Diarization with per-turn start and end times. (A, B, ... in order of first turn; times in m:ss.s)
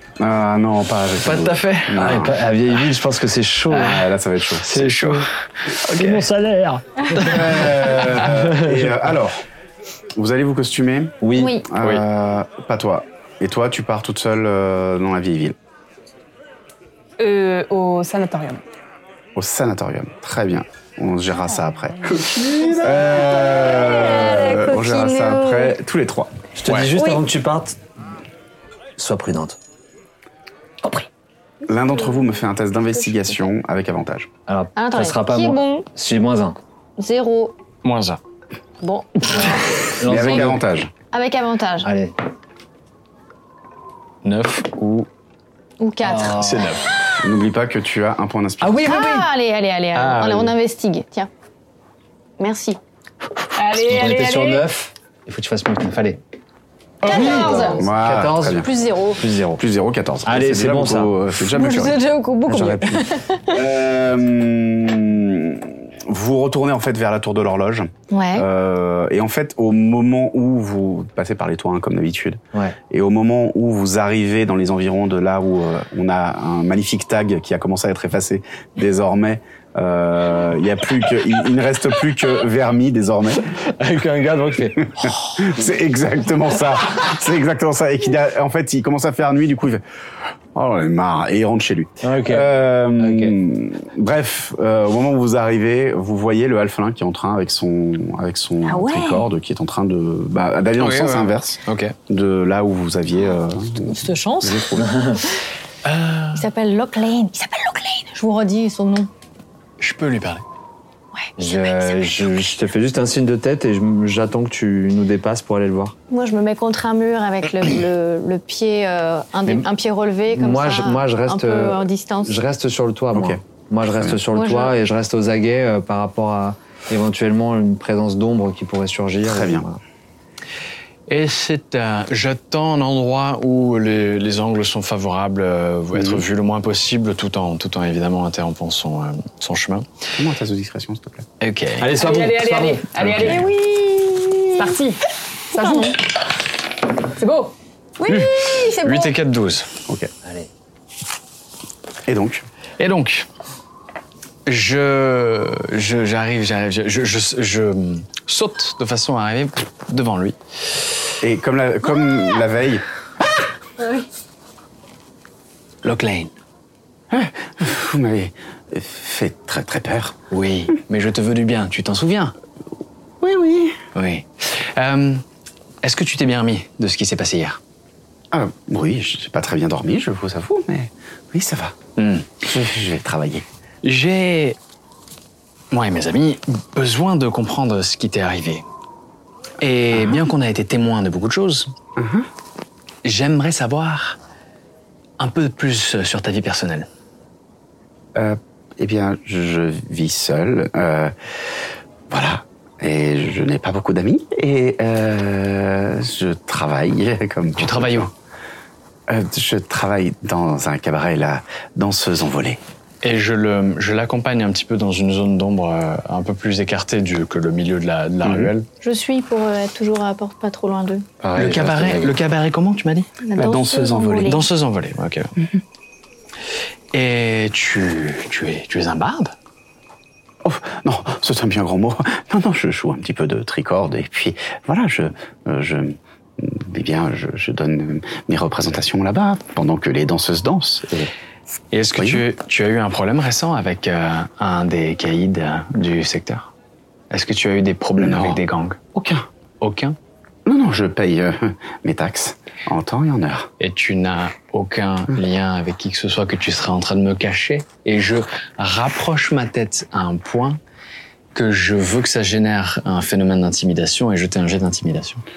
0:00.2-0:02.3 A
0:01.2-0:02.3 B
0:01.9-0:04.1 C
0:03.7-0:06.3 B
0:03.8-0:04.8 A
0:04.7-0:05.3 C
0:05.8-0:09.0 C
0:07.1-0:08.3 B
0:07.2-0:09.4 A
0:10.2-0:11.2 A
0:11.2-0:11.6 C
0:11.4-0:11.7 D
0:11.7-0:15.6 A
0:17.2-0:18.6 E
0:19.3-0:26.4 A
0:22.1-0:23.2 C
0:23.2-0:25.8 D
0:26.6-0:27.8 C
0:26.6-0:26.9 B
0:26.9-0:27.2 D
0:29.0-0:29.6 C
0:31.7-0:34.3 A
0:33.1-0:33.5 D
0:34.5-0:36.6 C
0:34.7-0:35.9 D
0:37.0-0:37.5 D
0:37.8-0:38.2 B
0:38.8-0:39.7 D
0:39.3-0:40.6 C
0:40.0-0:40.9 A
0:41.1-0:41.9 D
0:41.8-0:42.1 C
0:44.2-0:45.1 B
0:45.8-0:46.5 D
0:46.0-0:46.7 C
0:46.3-0:46.8 B
0:47.2-0:48.9 A
0:48.6-0:49.2 C
0:48.8-0:51.3 D
0:49.9-0:50.5 B
0:52.4-0:52.8 D
0:53.5-0:54.6 E
0:53.8-0:56.2 C
0:57.0-0:57.8 D
0:57.0-0:58.7 A
0:57.0-0:59.6 C
0:58.6-0:59.2 D
0:59.6-1:02.0 A
1:00.2-1:01.2 C
1:01.5-1:03.6 D
1:02.5-1:03.1 C
1:03.5-1:23.5 A
1:08.1-1:08.5 D
1:23.6-1:25.1 C
1:24.8-1:29.8 A
1:30.5-1:44.9 A
1:32.0-1:33.4 C
1:38.6-1:39.3 D
1:40.8-1:42.0 B
1:43.2-1:45.0 D
1:44.8-1:45.2 C
1:45.8-1:46.4 B
1:46.3-1:49.1 D
1:49.8-1:50.4 B
1:51.1-1:52.3 D
1:51.4-1:55.9 C
1:56.1-2:02.4 D
2:00.3-2:09.8 C
2:03.1-2:03.4 A
2:04.3-2:04.7 D
2:09.2-2:09.6 A
2:11.1-2:19.9 B
2:15.9-2:16.2 A
2:20.2-2:21.2 A
2:21.4-2:22.0 B
2:21.8-2:23.5 C
2:21.9-2:26.1 E
2:23.1-2:23.4 B
2:25.6-2:25.9 D
2:27.1-2:29.1 E
2:28.0-2:29.7 B
2:30.2-2:30.5 C
2:32.1-2:32.4 A
2:32.8-2:33.3 B
2:34.4-2:40.4 B
2:41.2-2:42.8 A
2:45.8-2:46.3 B
2:47.1-2:50.1 A
2:50.3-2:52.3 B
2:53.2-2:53.8 A
2:53.9-2:55.2 B
2:55.8-2:57.6 B
2:58.3-3:01.8 A
3:02.0-3:02.3 B
3:02.4-3:03.4 A
3:03.8-3:04.6 B
3:05.7-3:08.6 B
3:09.6-3:11.7 B
3:09.9-3:10.2 A
3:12.0-3:12.3 A
3:13.0-3:14.2 B
3:15.2-3:16.9 B
3:18.1-3:21.3 A
3:22.1-3:28.1 A
3:27.6-3:28.1 B
3:29.1-3:32.6 A
3:33.0-3:38.7 B
3:38.2-3:38.5 A
3:38.8-3:41.1 D
3:41.2-3:42.2 C
3:41.3-3:43.1 B
3:43.2-3:44.5 D
3:43.4-3:44.3 A
3:44.2-3:45.3 B
3:46.9-3:49.3 B
3:50.4-4:01.1 A
4:01.7-4:06.5 B
4:02.0-4:02.2 A
4:07.1-4:08.8 B
4:08.0-4:08.4 A
4:08.9-4:09.2 A
4:09.6-4:10.0 B
4:10.4-4:13.5 A
4:13.6-4:20.6 B
4:21.3-4:25.2 B